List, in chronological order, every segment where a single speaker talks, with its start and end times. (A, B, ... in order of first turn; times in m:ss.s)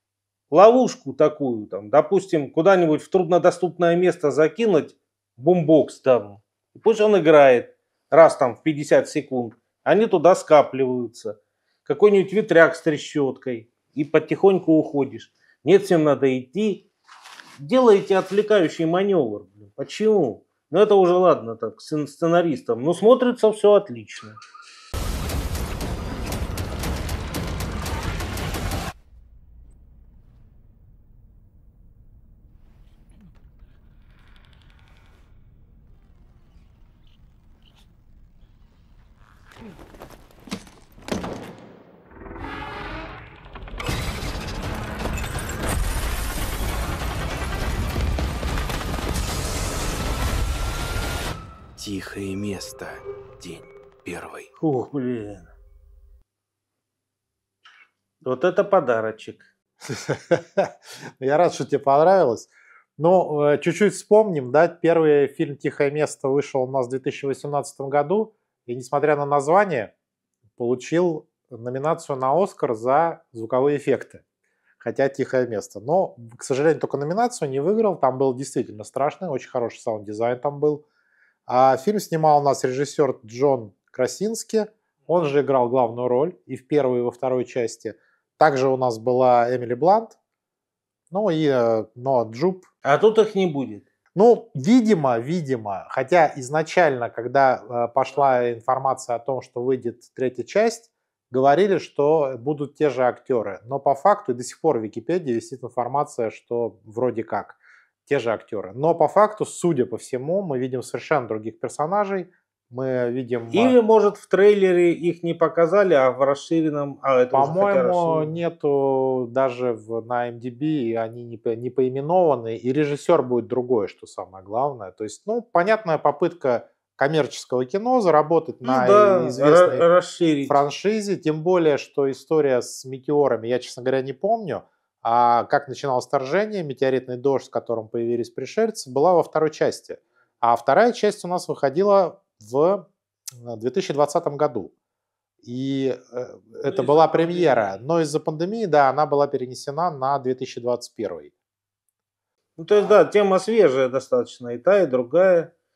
0:00.5-0:16.9 A
0:17.6-0:24.4 A
0:51.8-0:54.5 B
0:54.6-0:55.5 A
0:58.2-0:59.5 A
0:59.8-1:09.9 C
1:10.6-1:14.2 C
1:14.8-1:20.8 C
1:21.5-1:30.2 C
1:31.1-1:32.7 C
1:32.8-1:33.8 A
1:34.1-1:53.8 C
1:53.5-1:58.4 A
1:57.3-2:09.8 C
2:08.6-2:10.6 A
2:10.4-2:24.7 C
2:25.4-2:31.3 C
2:26.6-2:27.8 A
2:32.6-2:35.5 A